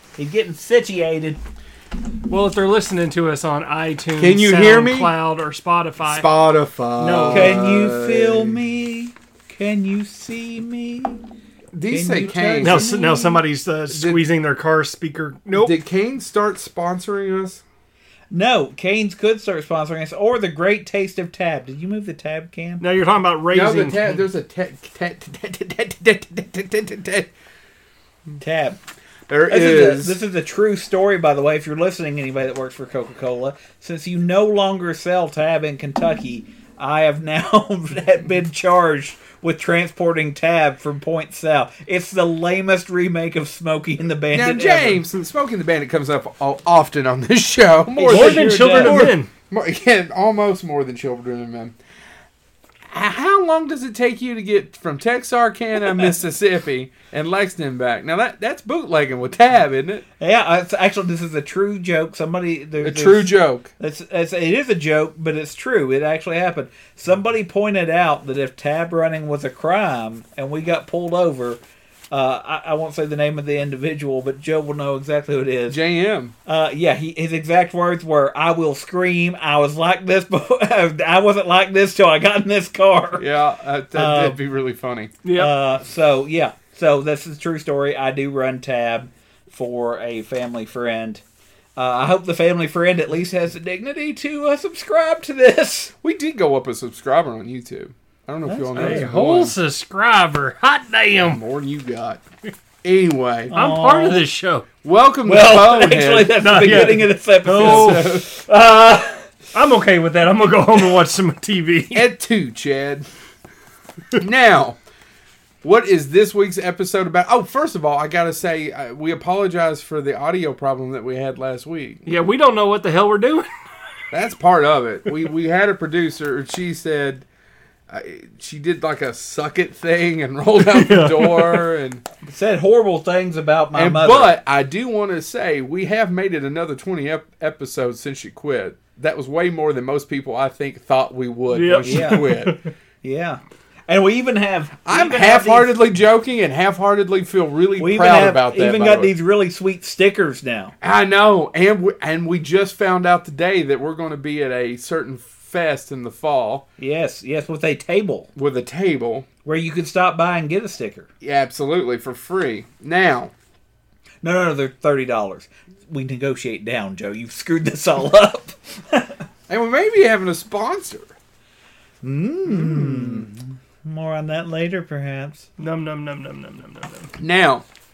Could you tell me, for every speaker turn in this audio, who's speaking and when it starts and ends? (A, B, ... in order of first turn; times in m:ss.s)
0:00.2-0:01.4 A
0:02.3-0:06.3 B
0:04.2-0:05.1 C
0:06.0-0:08.6 C
0:07.0-0:07.6 B
0:07.3-0:11.2 A
0:11.7-0:13.4 C
0:11.9-0:13.0 A
0:12.6-0:15.7 B
0:13.9-0:14.2 C
0:15.5-0:17.6 C
0:18.3-0:22.8 A
0:22.8-0:24.2 B
0:23.5-0:27.3 C
0:28.4-0:28.8 A
0:29.3-0:30.2 C
0:29.5-0:45.0 A
0:44.3-0:51.8 C
0:48.0-0:49.1 A
0:48.1-0:49.3 B
0:52.9-1:00.0 C
1:00.2-1:15.8 A
1:02.8-1:03.7 C
1:15.7-1:16.3 C
1:16.4-1:23.3 A
1:23.2-1:25.2 C
1:23.9-1:24.4 A
1:25.2-1:25.5 B
1:25.3-1:31.2 A
1:31.8-1:35.9 A
1:36.0-1:39.6 C
1:38.5-1:39.1 A
1:38.8-1:41.4 B
1:41.2-1:42.2 C
1:42.8-1:43.5 C
1:43.5-1:44.2 A
1:43.5-1:44.7 B
1:44.8-1:47.0 C
1:45.2-1:49.2 A
1:46.4-1:48.2 B
1:47.5-1:48.3 C
1:49.5-1:52.1 B
1:51.9-1:53.1 C
1:54.2-1:54.8 C
1:55.6-2:02.0 C
2:02.1-2:03.5 B
2:04.1-2:07.2 C
2:07.9-2:12.0 C
2:10.6-2:11.7 B
2:12.2-2:14.3 A
2:13.7-2:22.6 C
2:21.5-2:22.7 B
2:21.8-2:22.3 A
2:23.0-2:25.1 A
2:24.9-2:29.1 C
2:24.9-2:25.7 B
2:27.8-2:30.8 A
2:30.8-2:36.6 C
2:36.8-2:38.3 A
2:38.4-2:39.3 C
2:39.4-2:41.1 A
2:41.2-2:43.3 C
2:44.2-2:49.2 A
2:49.5-2:51.1 C
2:52.0-2:55.5 A
2:52.5-2:53.3 C
2:55.6-2:57.1 B
2:57.2-2:57.6 C